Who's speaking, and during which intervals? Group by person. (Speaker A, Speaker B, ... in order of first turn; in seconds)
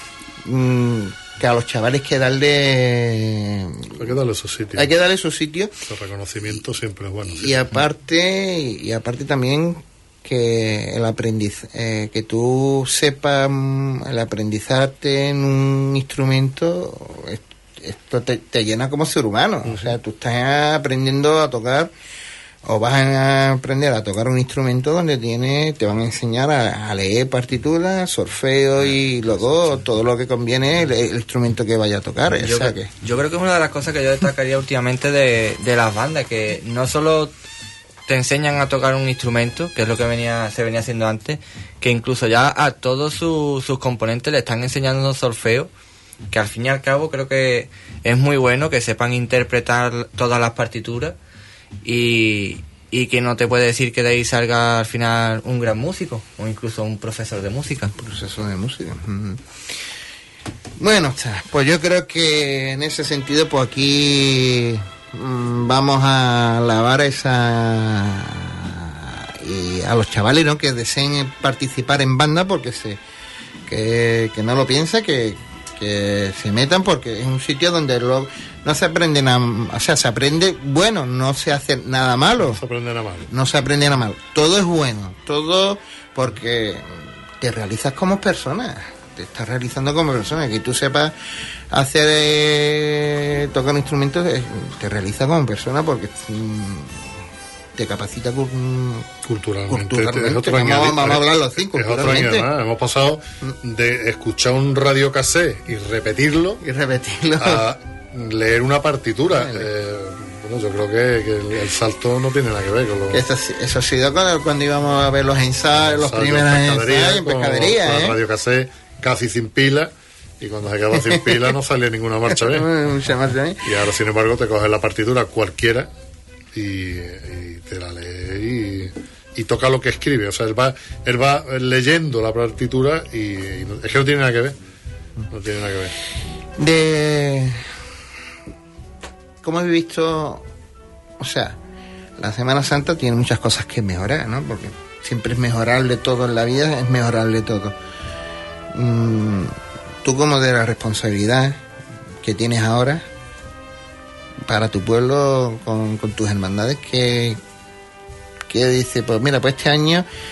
Speaker A: 0.4-4.0, 4.8-5.7, 7.3-21.9, 22.6-32.9, 58.0-59.4, 60.8-73.0, 73.7-82.6, 83.3-91.1, 91.7-99.1, 99.7-102.5, 106.6-107.6, 109.3-109.7, 113.1-118.2, 121.0-121.4, 122.4-123.8, 136.6-137.7, 139.4-140.4, 141.2-141.6, 142.2-147.7, 148.7-151.6, 152.2-153.1, 154.4-157.4, 158.5-160.1
Speaker B: 3.9-4.9, 5.9-7.8, 82.4-83.3, 99.2-106.6, 107.4-113.2, 115.8-122.7, 123.6-125.9, 126.5-134.5, 135.3-135.9
Speaker C: 32.4-37.3, 38.1-45.7, 46.3-51.1, 51.8-57.9